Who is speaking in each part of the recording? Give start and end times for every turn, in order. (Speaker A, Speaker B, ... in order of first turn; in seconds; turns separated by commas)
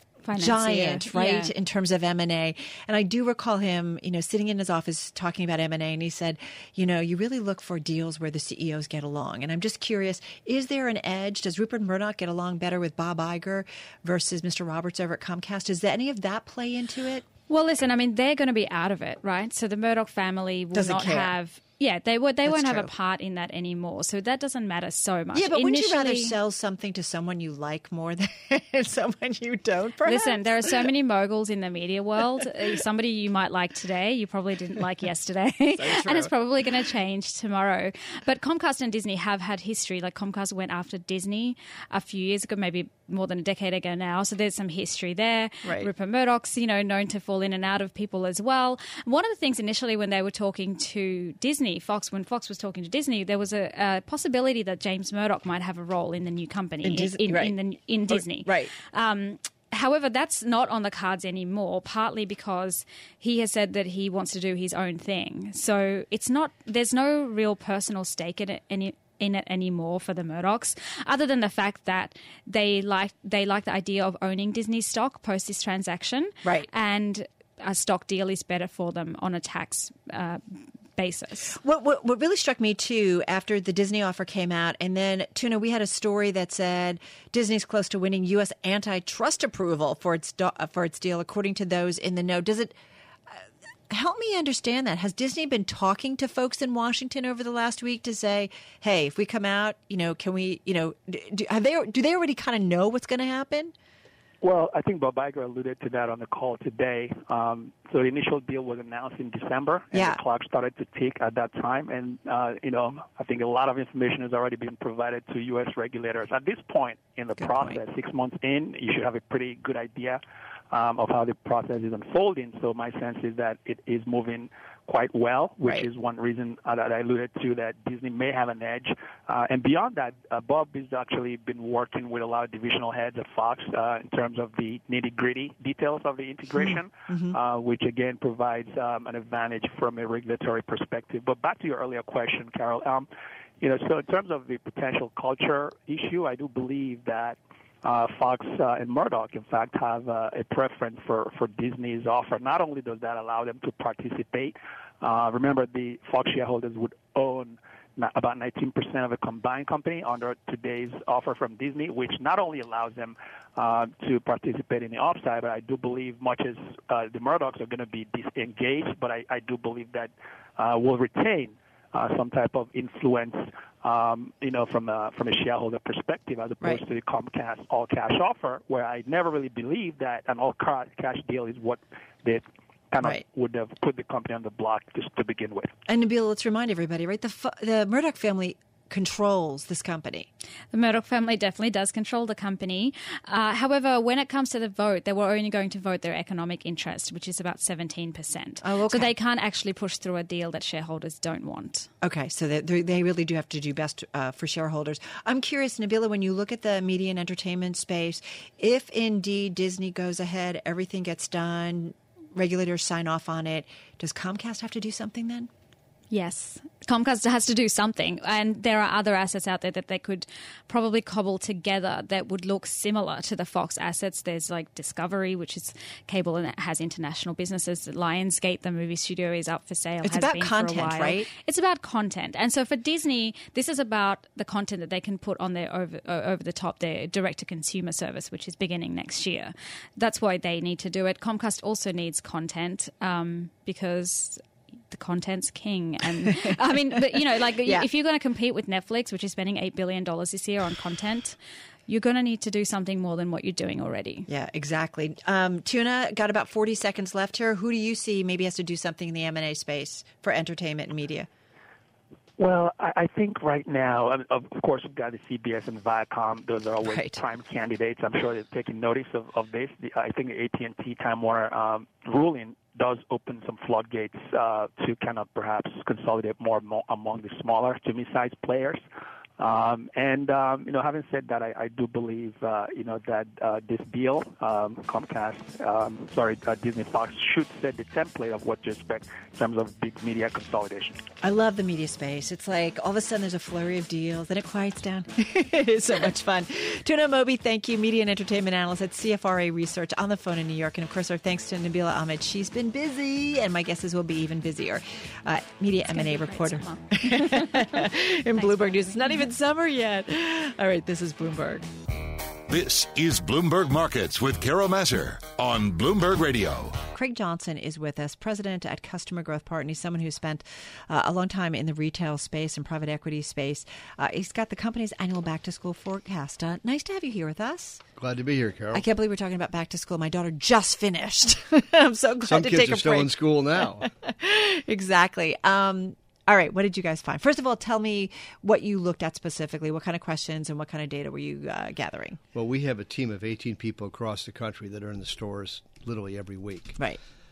Speaker A: 0.2-1.5, Speaker B: 0.3-17.2, Speaker A: 17.5-26.3, Speaker B: 20.7-21.3, Speaker B: 22.4-22.9, Speaker B: 25.3-30.8, Speaker A: 30.0-81.5, Speaker B: 35.8-36.3, Speaker B: 45.6-45.9, Speaker B: 56.8-57.5, Speaker B: 58.1-58.7, Speaker B: 76.4-76.7, Speaker B: 81.5-92.8, Speaker B: 93.3-103.7, Speaker C: 104.4-143.1, Speaker B: 109.9-110.2, Speaker B: 117.4-117.8, Speaker B: 136.6-137.3, Speaker C: 143.6-185.7, Speaker B: 185.9-190.3, Speaker A: 190.7-201.9, Speaker B: 198.6-199.1, Speaker B: 202.0-215.5, Speaker A: 216.1-254.3, Speaker B: 230.0-231.3, Speaker B: 246.3-246.6, Speaker B: 254.3-261.3, Speaker C: 262.4-278.8, Speaker B: 266.8-267.2, Speaker C: 279.4-291.0, Speaker B: 291.2-311.7, Speaker A: 305.9-309.2, Speaker D: 312.5-316.8, Speaker B: 316.9-327.8, Speaker E: 328.0-328.8, Speaker B: 328.7-342.2, Speaker E: 332.2-333.9, Speaker E: 342.3-346.8